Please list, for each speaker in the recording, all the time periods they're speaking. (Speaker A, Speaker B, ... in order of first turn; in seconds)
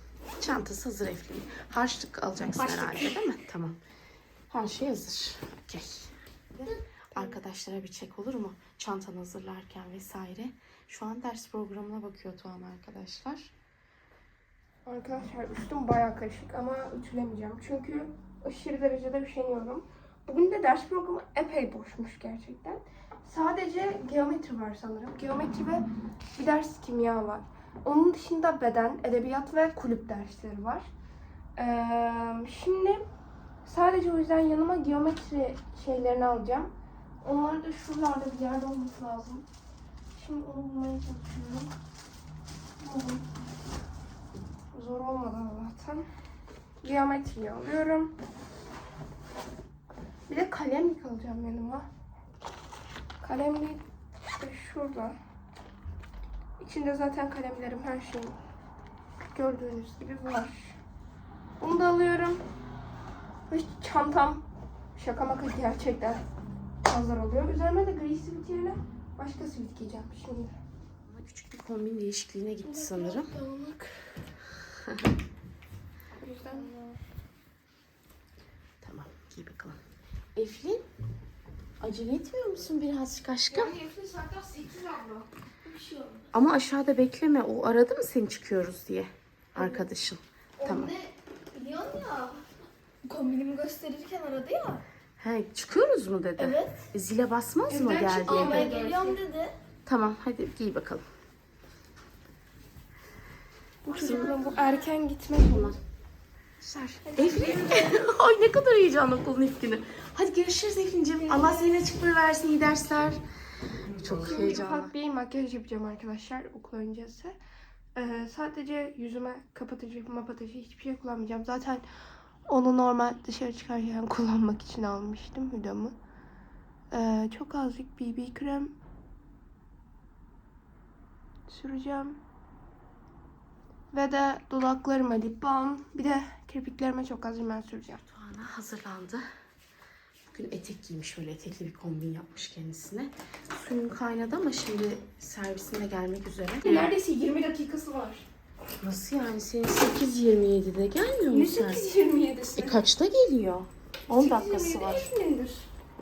Speaker A: 0.4-3.8, 4.5-13.5, 71.0-73.3, 78.8-79.8, 80.3-80.9, 81.8-83.8, 86.3-91.0, 95.2-98.7, 99.9-101.0, 103.9-104.5, 105.5-105.8, 106.6-113.2, 114.0-114.9, 138.1-139.2, 140.3-146.9, 148.8-151.9, 152.6-155.1
Speaker B: 2.5-3.2, 90.6-92.5, 93.0-94.8, 96.4-96.8, 98.2-99.5, 103.9-104.7, 107.0-107.9
Speaker C: 7.1-7.4, 14.8-25.9, 26.4-30.9, 31.6-33.0, 33.6-39.5, 40.1-41.7, 42.8-43.2, 44.7-46.1, 46.8-48.1, 50.3-51.9, 53.2-55.2, 56.6-58.4, 59.3-60.8, 61.6-62.4, 63.5-64.5, 65.0-66.2, 66.8-70.5, 72.6-74.2, 76.2-77.0, 83.5-86.3, 97.7-99.2, 103.8-105.8, 107.3-108.0, 114.0-117.4, 118.0-121.8, 122.5-126.0, 126.9-128.8, 131.5-132.2, 133.9-138.0, 146.6-148.3, 151.3-152.9, 154.1-155.7